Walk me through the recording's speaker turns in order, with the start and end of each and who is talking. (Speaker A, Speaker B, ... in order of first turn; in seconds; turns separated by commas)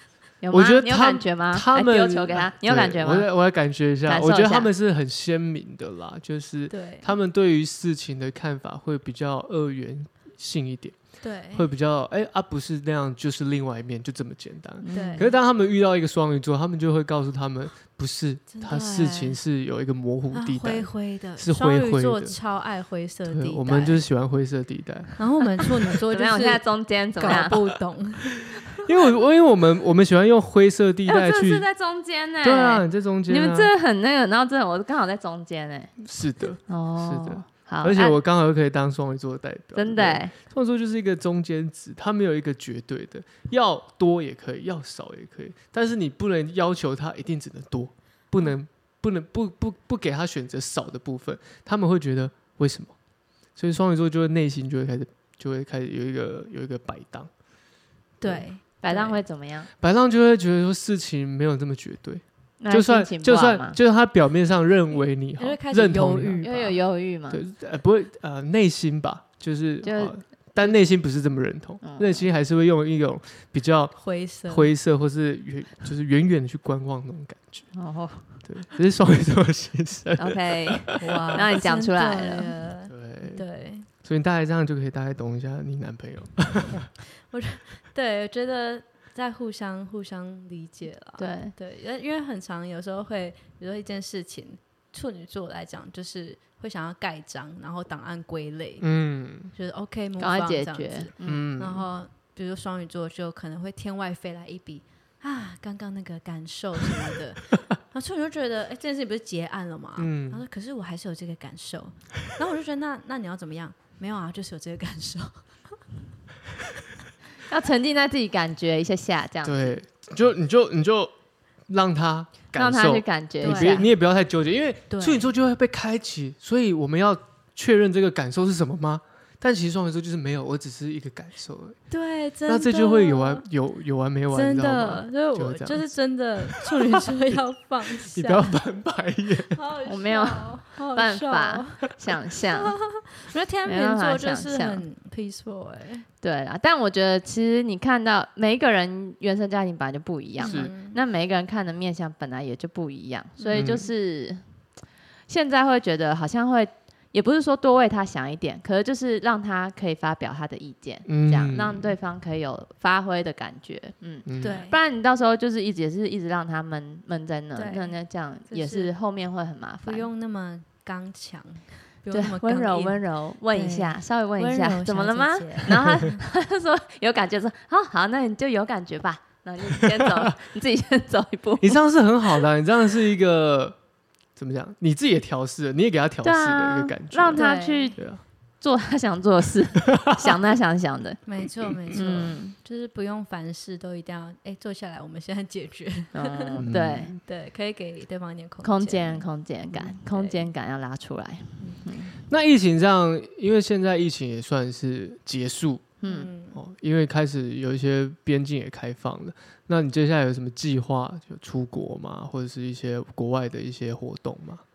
Speaker A: 0.4-3.3, Speaker B: 0.5-11.0, Speaker A: 4.0-4.7, Speaker C: 6.7-7.1, Speaker C: 11.2-11.7, Speaker B: 11.5-22.4, Speaker A: 14.8-15.3, Speaker C: 14.9-15.3, Speaker C: 18.5-19.4, Speaker C: 20.3-24.0, Speaker B: 23.3-25.6, Speaker C: 25.2-28.8, Speaker A: 26.1-27.6, Speaker B: 27.3-27.5, Speaker B: 28.8-31.6, Speaker A: 31.1-36.0, Speaker B: 32.4-33.7, Speaker B: 36.0-52.9, Speaker A: 36.7-38.2, Speaker A: 39.7-40.3, Speaker B: 53.5-57.3, Speaker C: 58.2-59.2, Speaker A: 58.8-59.7, Speaker B: 59.8-66.4, Speaker A: 62.6-63.8, Speaker C: 65.4-66.8, Speaker A: 66.4-67.4, Speaker B: 67.3-77.7, Speaker A: 69.8-70.7, Speaker A: 71.8-72.3, Speaker C: 74.0-74.7, Speaker A: 77.7-78.4, Speaker B: 78.4-81.0, Speaker A: 80.2-82.5, Speaker C: 81.0-83.9, Speaker B: 82.9-83.4, Speaker B: 84.0-86.9, Speaker C: 87.3-98.8, Speaker A: 91.2-91.5, Speaker B: 98.8-99.5, Speaker C: 99.5-115.8, Speaker A: 100.2-101.4, Speaker B: 101.2-101.8, Speaker B: 110.0-110.4, Speaker A: 117.5-119.8, Speaker B: 119.4-121.1, Speaker B: 121.7-131.8, Speaker A: 122.5-123.9, Speaker C: 123.4-123.9, Speaker C: 124.9-125.3, Speaker C: 131.9-133.4, Speaker B: 132.5-135.9, Speaker C: 134.3-138.6, Speaker B: 136.4-137.4, Speaker B: 138.0-139.6, Speaker C: 139.5-146.1, Speaker A: 139.8-142.8, Speaker A: 143.6-144.8, Speaker A: 146.2-154.4, Speaker C: 150.4-151.0, Speaker B: 150.4-150.7, Speaker C: 153.4-153.7, Speaker B: 153.5-153.9, Speaker A: 155.3-170.1, Speaker B: 161.1-161.9, Speaker B: 164.2-164.6, Speaker C: 164.4-164.8, Speaker C: 167.5-167.9, Speaker C: 168.5-168.9, Speaker C: 169.8-176.2, Speaker A: 172.1-181.8, Speaker B: 180.0-180.3, Speaker B: 181.6-183.8, Speaker B: 184.3-188.2, Speaker A: 186.2-188.0, Speaker C: 187.3-188.0, Speaker A: 188.6-191.2, Speaker C: 191.2-196.6, Speaker B: 191.7-192.3, Speaker A: 191.9-192.5, Speaker A: 196.1-197.1, Speaker B: 196.6-197.2, Speaker C: 197.2-200.5, Speaker A: 198.6-202.2, Speaker C: 201.6-201.9, Speaker B: 202.3-205.9, Speaker A: 206.0-206.3, Speaker C: 206.0-206.6, Speaker B: 206.5-214.6